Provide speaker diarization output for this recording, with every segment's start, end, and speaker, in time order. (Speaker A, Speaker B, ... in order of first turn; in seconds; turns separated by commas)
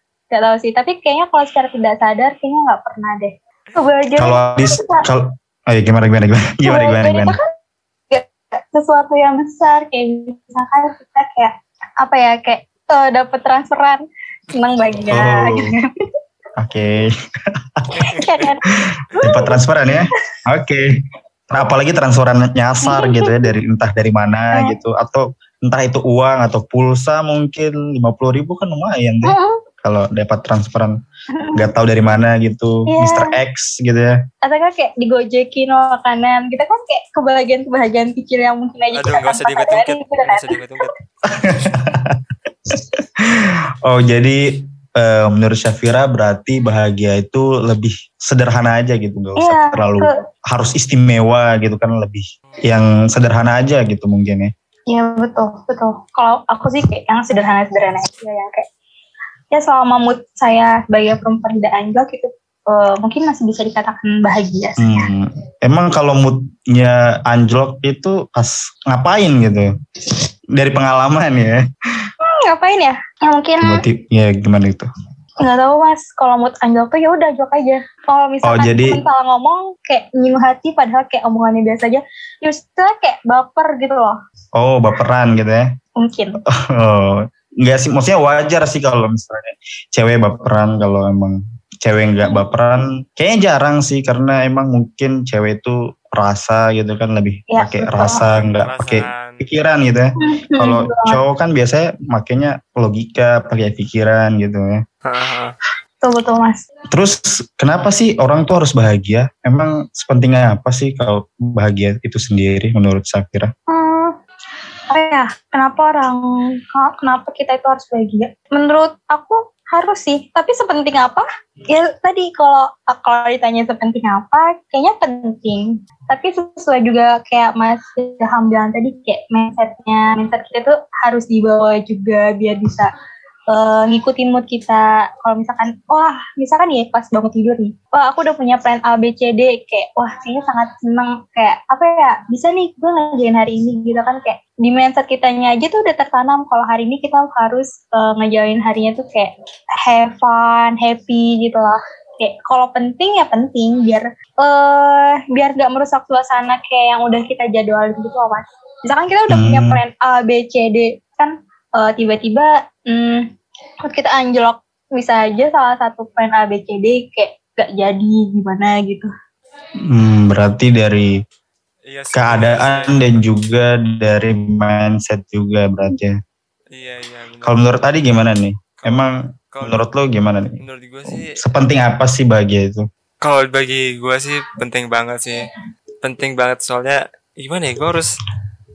Speaker A: 0.3-5.0, Speaker B: 4.2-7.4, Speaker A: 6.7-7.4, Speaker A: 8.1-15.9, Speaker C: 14.8-15.1, Speaker B: 15.1-15.7, Speaker B: 16.6-17.1, Speaker B: 17.8-18.1, Speaker A: 18.1-18.6, Speaker B: 18.7-20.9, Speaker A: 19.2-19.6, Speaker B: 21.5-30.9, Speaker A: 22.8-23.5, Speaker A: 29.2-29.6, Speaker A: 31.4-31.7, Speaker B: 31.6-34.2, Speaker A: 32.9-33.4, Speaker A: 34.4-40.6, Speaker C: 38.9-40.9, Speaker B: 41.3-54.5, Speaker A: 49.4-50.1, Speaker A: 54.9-58.7, Speaker A: 59.5-65.0, Speaker B: 64.8-69.7, Speaker B: 70.5-72.1, Speaker A: 72.3-73.8, Speaker B: 73.6-74.9, Speaker A: 75.4-84.2, Speaker B: 78.4-79.0, Speaker B: 84.6-85.7, Speaker A: 86.0-86.4, Speaker B: 86.6-104.8, Speaker A: 97.5-98.2, Speaker C: 98.1-99.5, Speaker A: 100.2-101.2, Speaker C: 105.0-105.5, Speaker A: 106.0-106.6, Speaker B: 106.9-113.5, Speaker A: 113.7-114.2, Speaker A: 114.9-132.9, Speaker A: 133.5-149.3, Speaker A: 149.8-163.3, Speaker B: 159.3-159.8, Speaker A: 163.8-169.1, Speaker B: 169.9-171.1, Speaker C: 171.9-173.2, Speaker B: 172.2-176.2, Speaker C: 176.7-177.7, Speaker B: 177.4-182.8, Speaker C: 178.8-179.8, Speaker C: 180.6-181.4, Speaker C: 183.2-185.4, Speaker C: 186.0-188.2